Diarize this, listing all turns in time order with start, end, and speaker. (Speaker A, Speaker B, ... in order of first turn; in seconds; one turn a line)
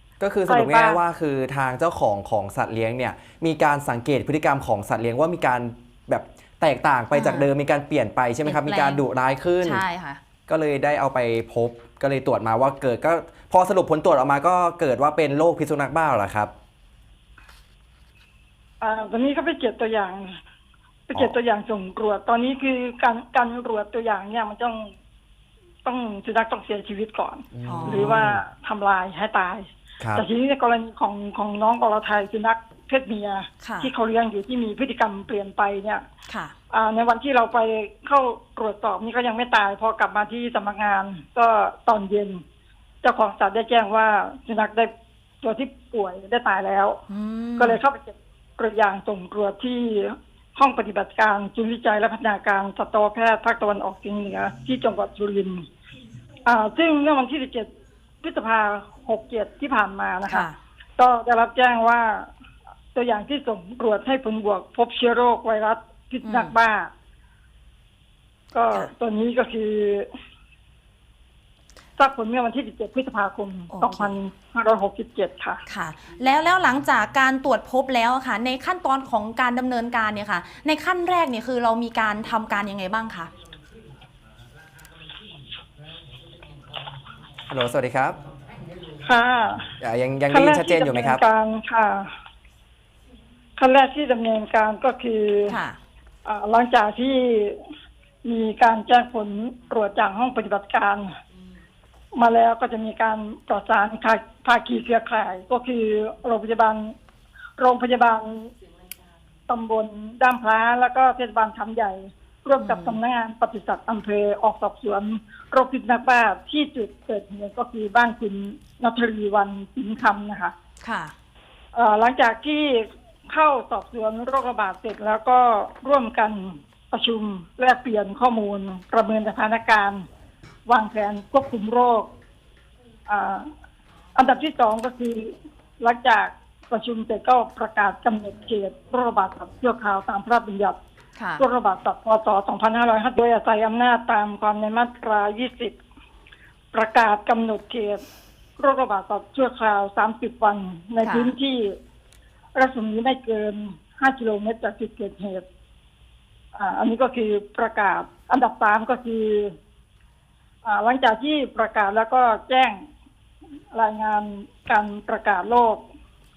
Speaker A: 0.2-9.8
Speaker B: 0.5-1.0
Speaker C: 7.1-7.5
Speaker C: 8.4-9.0
Speaker C: 9.6-10.2
Speaker A: 10.5-16.5
Speaker B: 18.8-20.4
Speaker B: 21.1-24.9
Speaker B: 25.8-36.0
Speaker A: 27.5-28.4
Speaker C: 27.6-28.2
Speaker A: 30.0-30.2
Speaker C: 33.6-33.9
Speaker C: 36.3-36.5
Speaker B: 36.7-42.4
Speaker B: 43.0-47.0
Speaker C: 47.1-47.8
Speaker B: 47.6-55.7
Speaker B: 56.4-62.3
Speaker C: 60.3-60.5
Speaker B: 62.9-66.9
Speaker C: 66.2-66.5
Speaker B: 68.5-70.1
Speaker B: 72.0-75.6
Speaker C: 73.7-74.2
Speaker C: 75.7-83.3
Speaker A: 87.5-88.2
Speaker B: 89.0-89.7
Speaker A: 89.8-91.2
Speaker B: 90.3-92.1
Speaker B: 93.6-95.6
Speaker C: 95.5-95.8
Speaker B: 96.2-97.6
Speaker B: 98.2-101.2
Speaker B: 102.1-106.9
Speaker B: 107.6-108.5
Speaker B: 109.5-120.5
Speaker C: 112.6-113.0
Speaker C: 120.8-121.1
Speaker B: 121.7-130.1
Speaker B: 130.7-132.1
Speaker B: 133.1-133.5
Speaker B: 134.1-140.8
Speaker C: 141.2-141.4
Speaker B: 141.4-145.8
Speaker B: 146.7-148.1
Speaker B: 148.6-151.8
Speaker C: 151.0-151.3
Speaker B: 152.5-155.4
Speaker B: 156.5-159.5
Speaker B: 160.6-162.9
Speaker B: 163.7-165.8